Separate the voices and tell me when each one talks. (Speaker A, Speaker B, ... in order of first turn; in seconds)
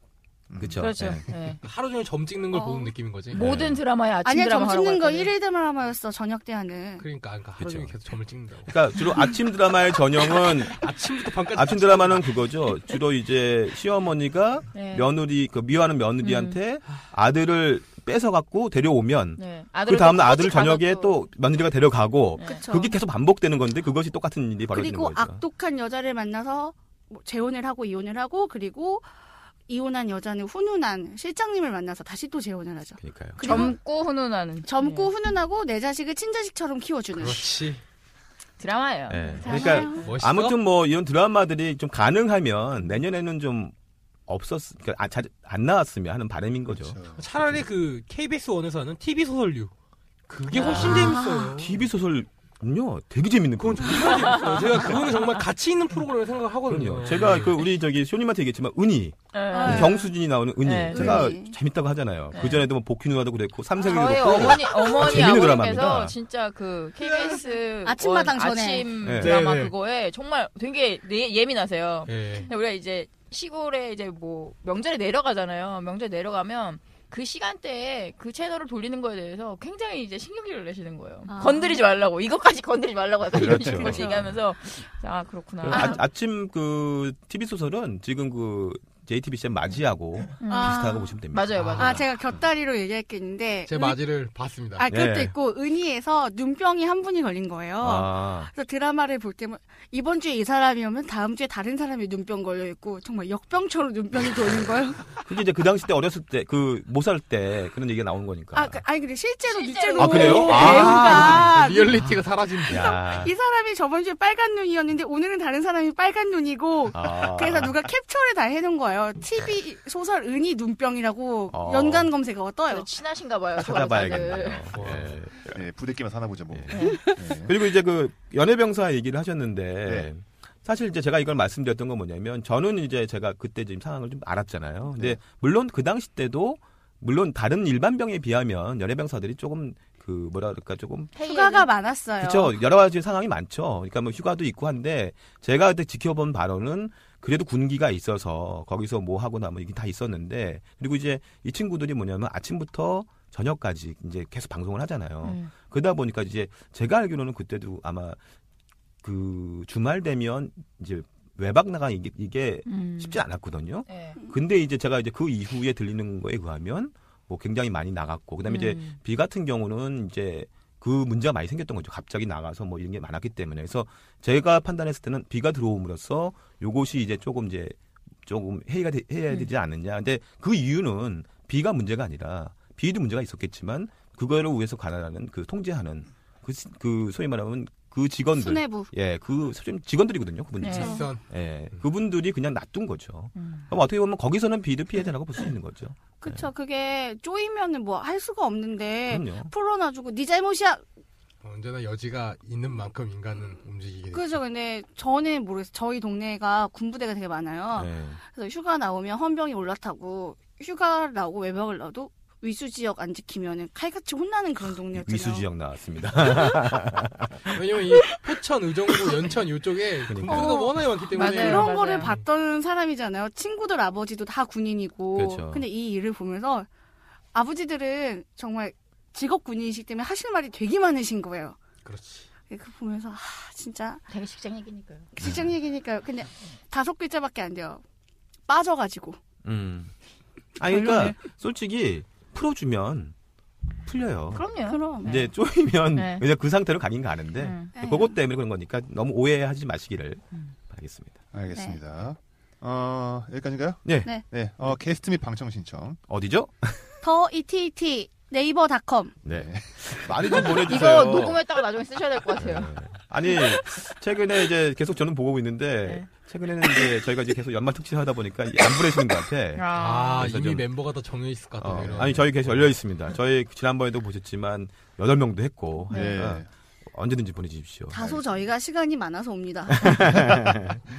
Speaker A: 0.5-1.2, 46.7-47.4, 125.5-127.5, 251.3-256.0, 259.3-260.5, 271.8-272.1, 275.9-276.5, 280.1-280.6
Speaker B: 0.6-1.2, 3.3-3.8, 7.6-7.9, 8.7-10.8, 11.5-25.4, 33.0-33.7, 39.1-43.7, 44.3-47.0, 50.6-55.0, 56.7-66.1, 69.0-69.4, 83.3-84.2, 85.6-91.9, 94.9-95.3, 97.8-98.5, 105.2-108.8, 110.0-112.1, 112.7-113.3, 116.9-117.8, 121.5-122.1, 123.6-125.5, 126.5-141.1, 142.2-158.2, 159.0-196.4, 199.1-199.5, 207.8-208.2, 214.9-217.5, 220.1-220.7, 225.1-225.7, 239.4-239.9, 240.6-243.1, 243.8-244.4, 245.0-251.2, 253.8-254.1, 256.1-256.9, 259.2-261.4, 262.4-269.6, 270.2-270.6, 271.6-278.2, 279.7-280.8
Speaker C: 0.8-1.6, 3.3-5.3, 14.7-15.1, 16.2-16.6, 19.4-21.2, 33.4-35.1, 38.6-39.9, 50.5-51.0, 54.3-54.7, 59.3-60.1, 60.6-61.2, 62.3-62.6, 63.8-86.0, 90.4-92.0, 109.5-111.0, 122.7-124.6, 126.7-127.0, 141.1-141.7, 155.2-155.5, 162.7-163.2, 163.9-164.2, 168.5-169.0, 190.6-190.9, 193.4-193.6, 221.1-222.1, 234.1-235.1, 244.3-245.3, 245.9-246.2, 247.4-247.7, 260.6-262.7, 269.6-270.2
Speaker D: 1.6-3.5, 7.0-9.2, 10.6-12.4, 37.1-37.8, 39.8-40.6, 47.2-49.7, 50.3-51.8, 53.6-57.6, 69.1-69.7, 72.1-72.5, 91.6-92.0, 93.7-94.9, 110.4-113.0, 124.7-125.2, 190.7-191.8, 201.4-204.4, 217.5-222.2, 231.8-232.3, 269.7-272.7
Speaker E: 2.5-2.9, 4.2-7.0, 22.4-23.0, 24.7-29.1, 29.7-33.8, 34.6-37.5, 39.4-40.1, 50.9-51.5, 59.5-60.1, 60.9-61.6, 64.5-65.5, 67.0-68.9, 81.3-81.8, 83.7-84.2, 90.5-91.2, 91.8-94.0, 94.8-105.2, 108.5-112.0, 112.7-122.9, 141.2-142.6, 188.3-188.9, 190.7-191.1, 196.2-200.8, 204.1-215.5, 216.2-216.6, 220.2-226.7, 227.3-231.6, 232.5-234.0, 235.2-237.8, 238.5-239.2, 240.7-241.2, 244.6-245.2, 247.7-248.2, 251.5-251.8, 257.0-259.1, 277.9-280.0